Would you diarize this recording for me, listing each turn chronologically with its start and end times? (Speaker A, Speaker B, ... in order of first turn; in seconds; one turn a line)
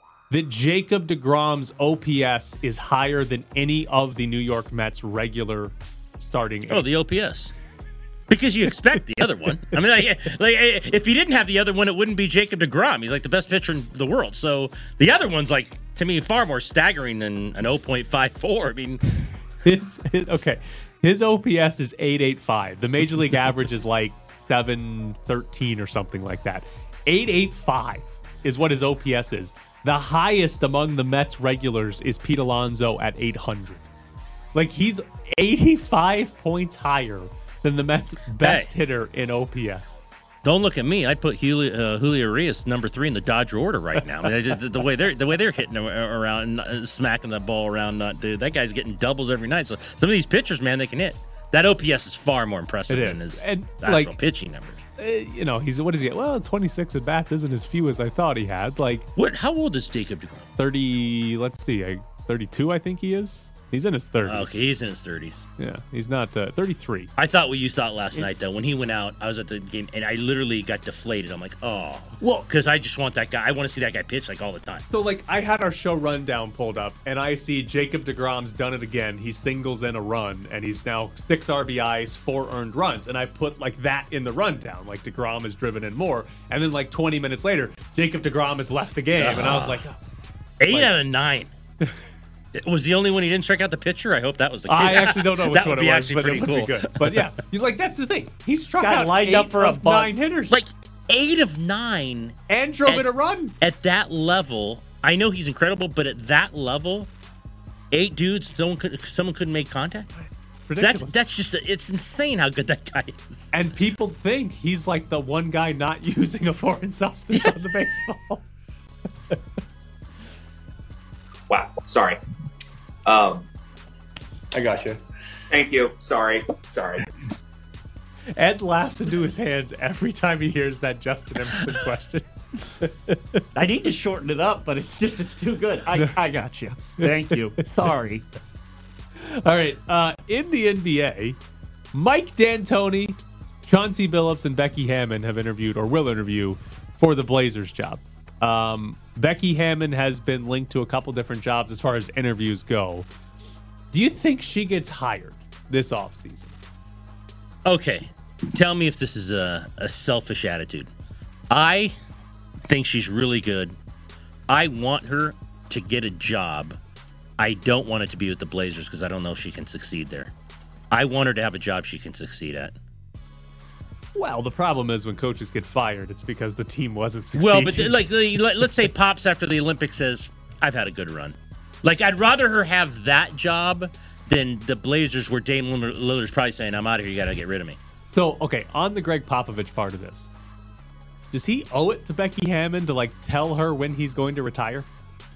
Speaker A: 0.3-6.9
Speaker B: 6.7-7.5
Speaker B: 8.3-19.0
Speaker A: 19.6-33.9
Speaker A: 34.5-40.0
Speaker B: 38.4-38.7
Speaker B: 40.4-54.8
Speaker A: 52.9-54.1
Speaker A: 55.0-59.1
Speaker B: 59.2-60.5
Speaker A: 60.6-64.6
Speaker B: 64.2-65.5
Speaker A: 65.6-67.1
Speaker B: 67.2-74.9
Speaker A: 72.2-72.5
Speaker A: 74.9-90.1
Speaker B: 89.2-89.8
Speaker B: 90.6-91.5
Speaker B: 92.5-97.3
Speaker A: 94.7-100.6
Speaker C: 98.8-100.1
Speaker B: 100.5-107.1
Speaker A: 102.5-103.5
Speaker B: 107.9-110.1
Speaker A: 110.2-111.2
Speaker B: 110.8-113.5
Speaker A: 113.5-118.4
Speaker D: 121.5-122.2
Speaker D: 123.1-123.5
Speaker D: 125.5-127.1
Speaker A: 128.4-133.4
Speaker C: 133.6-138.3
Speaker A: 139.2-141.4
Speaker A: 141.9-153.1
Speaker A: 153.9-156.6
Speaker B: 157.7-160.9
Speaker B: 161.5-161.9
Speaker B: 162.7-163.8
Speaker B: 164.5-166.8
Speaker B: 167.4-170.3
Speaker B: 170.9-172.8
Speaker A: 174.2-178.0
Speaker B: 177.4-187.8
Speaker A: 188.1-190.3
Speaker A: 191.3-194.9